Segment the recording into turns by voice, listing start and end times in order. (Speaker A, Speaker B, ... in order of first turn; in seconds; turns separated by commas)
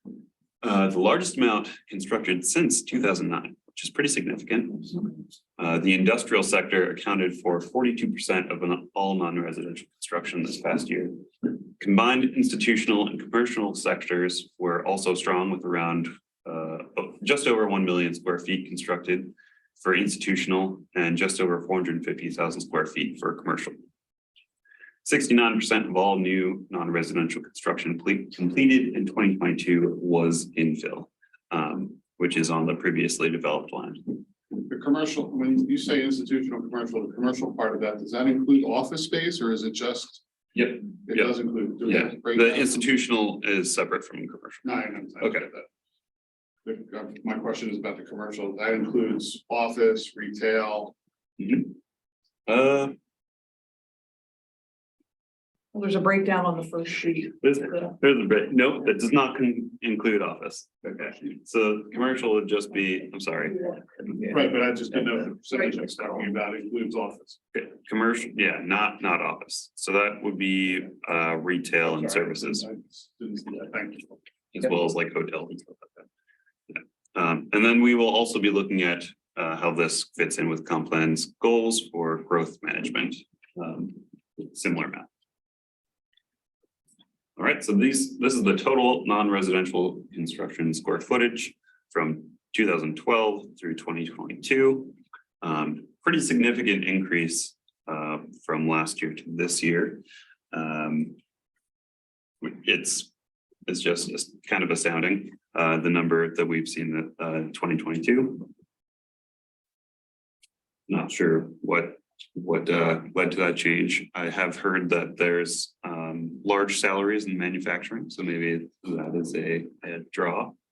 Speaker A: 0.6-5.0, Speaker A: 5.6-23.8, Speaker A: 25.0-34.1, Speaker B: 34.7-40.2, Speaker A: 40.5-44.6, Speaker B: 41.0-42.8, Speaker B: 44.6-45.6, Speaker A: 45.2-45.5, Speaker B: 46.6-50.9, Speaker A: 51.4-51.8, Speaker A: 52.5-53.0, Speaker C: 55.7-57.9, Speaker A: 57.4-64.0, Speaker B: 60.8-61.3, Speaker B: 64.3-67.4, Speaker A: 67.5-72.6, Speaker B: 71.9-74.2, Speaker A: 74.5-76.0, Speaker A: 76.7-85.1, Speaker A: 87.4-101.2, Speaker A: 102.4-103.1, Speaker A: 103.7-108.5, Speaker A: 110.9-120.5